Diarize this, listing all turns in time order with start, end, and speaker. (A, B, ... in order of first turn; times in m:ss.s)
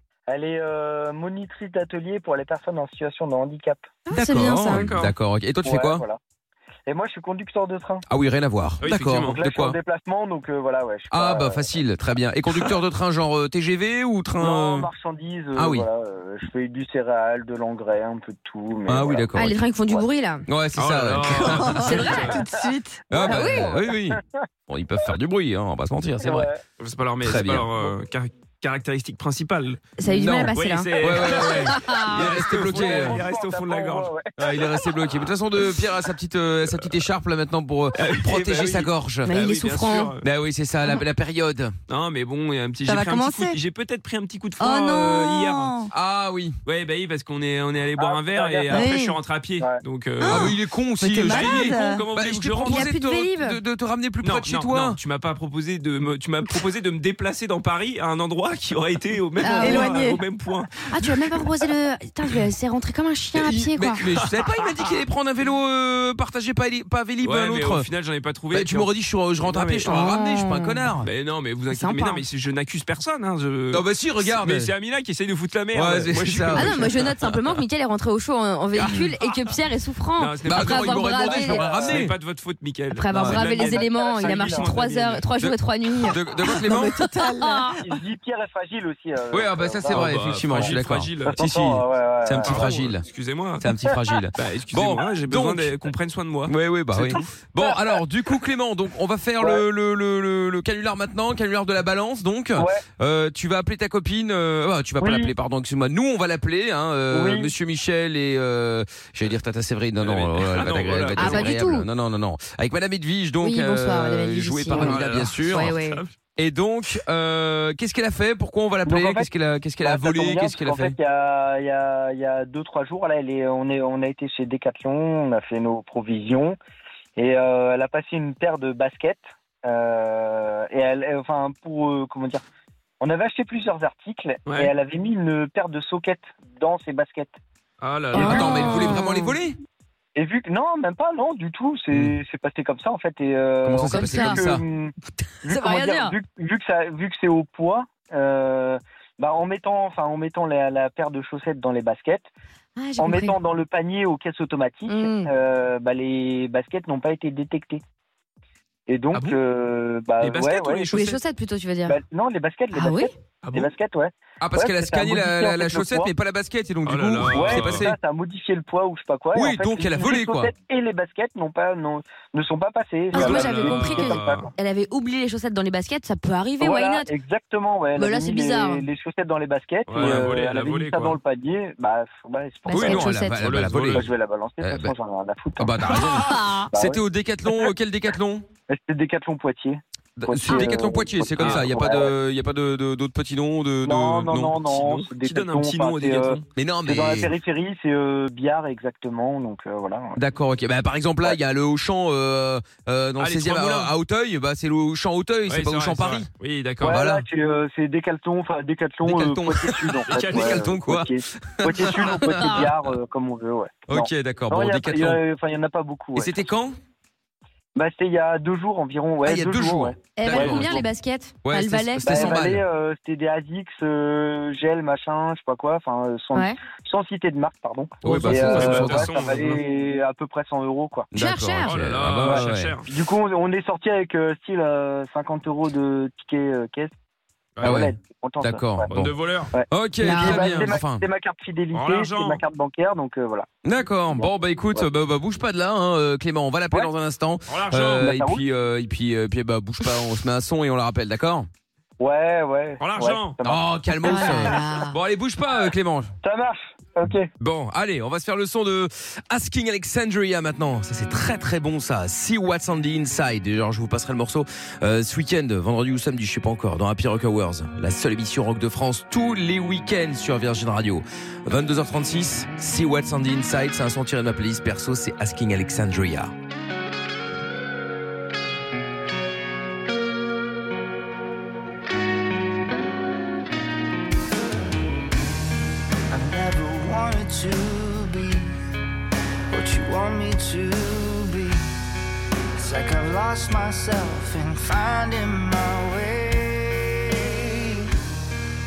0:00.3-0:04.0 A
0:04.1-0:05.0 B
0:04.1-0:06.0 C
0:04.7-0:05.1 D
0:05.6-0:06.2 A
0:06.9-0:08.0 A
0:08.1-0:09.8 C
0:08.8-0:09.4 D
0:09.2-0:11.8 A
0:11.1-0:14.9 C
0:14.4-0:20.1 A
0:15.6-0:15.9 C
0:18.9-0:19.5 C
0:19.4-0:20.4 B
0:20.5-0:22.4 C
0:20.8-0:22.4 D
0:21.2-0:23.1 E
0:23.1-0:24.4 A
0:23.1-0:26.5 C
0:23.2-0:23.8 B
0:26.2-0:26.6 A
0:26.8-0:29.8 D
0:27.2-0:27.9 C
0:30.0-0:32.4 B
0:30.1-0:33.2 C
0:30.5-0:34.1 D
0:32.6-0:34.7 A
0:34.4-0:39.3 C
0:38.0-0:40.2 D
0:39.2-0:40.2 B
0:40.2-0:41.8 C
0:41.9-0:45.7 D
0:42.8-0:43.6 E
0:44.6-0:45.9 E
0:45.9-0:46.6 C
0:46.7-0:50.5 D
0:48.0-0:48.9 A
0:48.7-0:49.2 E
0:50.2-0:52.1 E
0:50.2-0:55.0 C
0:51.2-0:52.9 D
0:52.6-0:53.6 B
0:54.2-1:01.3 D
0:59.4-1:00.0 B
0:59.6-1:00.2 E
1:00.9-1:04.0 B
1:03.4-1:07.9 C
1:04.2-1:04.8 D
1:07.2-1:08.9 D
1:08.5-1:11.1 C
1:09.4-1:10.0 D
1:09.9-1:10.9 B
1:11.0-1:17.4 D
1:11.7-1:12.3 B
1:13.7-1:14.7 C
1:15.7-1:16.8 C
1:16.5-1:21.7 B
1:18.8-1:19.6 D
1:20.2-1:25.3 D
1:20.5-1:22.2 C
1:21.6-1:22.0 A
1:22.9-1:26.2 B
1:23.1-1:23.5 C
1:23.4-1:24.9 A
1:25.4-1:27.0 C
1:26.5-1:27.8 E
1:27.0-1:27.8 B
1:27.8-1:30.7 A
1:29.3-1:33.0 C
1:29.9-1:31.4 D
1:31.2-1:32.6 A
1:32.4-1:33.7 D
1:33.6-1:35.9 C
1:34.4-1:37.3 D
1:36.5-1:55.7 C
1:42.6-1:42.8 A
1:45.0-1:45.3 A
1:47.1-1:47.5 A
1:50.0-1:51.5 D
1:51.2-1:51.9 B
1:53.4-1:56.0 B
1:54.7-1:56.1 D
1:56.4-2:01.0 C
1:58.9-1:59.3 A
1:59.8-2:06.6 A
2:07.2-2:12.4 A
2:13.0-2:17.4 A
2:14.5-2:14.7 D
2:17.8-2:18.8 D
2:18.1-2:19.4 B
2:18.1-2:19.6 C
2:20.2-2:24.9 A
2:23.6-2:24.6 C
2:23.9-2:24.4 B
2:25.4-2:32.3 A
2:25.5-2:26.2 B
2:32.8-2:33.4 B
2:33.0-2:37.8 A
2:34.9-2:35.3 B
2:38.9-2:41.1 A
2:39.1-2:39.4 D
2:40.2-2:41.2 D
2:40.9-2:42.0 B
2:41.9-2:46.1 A
2:42.7-2:43.1 B
2:43.4-2:43.7 D
2:44.4-2:48.0 C
2:46.8-2:47.9 D
2:47.3-2:54.5 A
2:49.3-2:50.5 C
2:53.1-2:57.1 B
2:53.1-2:54.5 D
2:56.6-3:03.1 A
2:58.0-2:58.9 B
2:59.9-3:01.2 D
3:02.7-3:03.5 B
3:02.7-3:04.9 C
3:03.4-3:04.1 D
3:03.9-3:05.7 A
3:05.6-3:08.5 C
3:05.9-3:06.7 B
3:06.7-3:07.0 A
3:08.7-3:12.1 A
3:10.2-3:14.6 C
3:11.4-3:11.7 D
3:13.8-3:20.2 A
3:14.7-3:16.4 D
3:16.6-3:17.3 C
3:20.2-3:26.3 C
3:23.2-3:23.9 D
3:25.5-3:27.0 D
3:26.8-3:27.2 C
3:26.8-3:36.6 A
3:29.0-3:32.7 C
3:30.1-3:30.6 D
3:32.3-3:32.7 B
3:33.9-3:35.2 C
3:36.2-3:36.8 C
3:37.8-3:40.7 A
3:39.2-3:40.8 C
3:40.2-3:42.4 B
3:41.4-3:42.6 C
3:42.0-3:51.1 A
3:48.0-3:49.5 C
3:48.0-3:49.6 D
3:51.1-3:52.8 C
3:51.1-3:51.7 B
3:51.7-3:52.9 D
3:52.9-3:56.9 A
3:57.6-3:57.9 D
3:57.6-3:58.9 A
3:57.6-3:59.2 C
3:58.9-3:59.5 D
3:59.5-4:03.5 A
3:59.7-4:01.0 C
4:00.0-4:00.6 B
4:01.7-4:02.4 D
4:03.6-4:11.5 C
4:04.1-4:04.9 A
4:07.5-4:08.1 D
4:08.0-4:08.4 A
4:12.0-4:14.6 A
4:12.8-4:13.4 D
4:13.4-4:16.1 C
4:14.0-4:15.0 B
4:16.2-4:17.3 A
4:17.4-4:36.3 C
4:46.1-4:48.6 F
4:49.5-4:51.8 F
4:52.6-4:58.0 F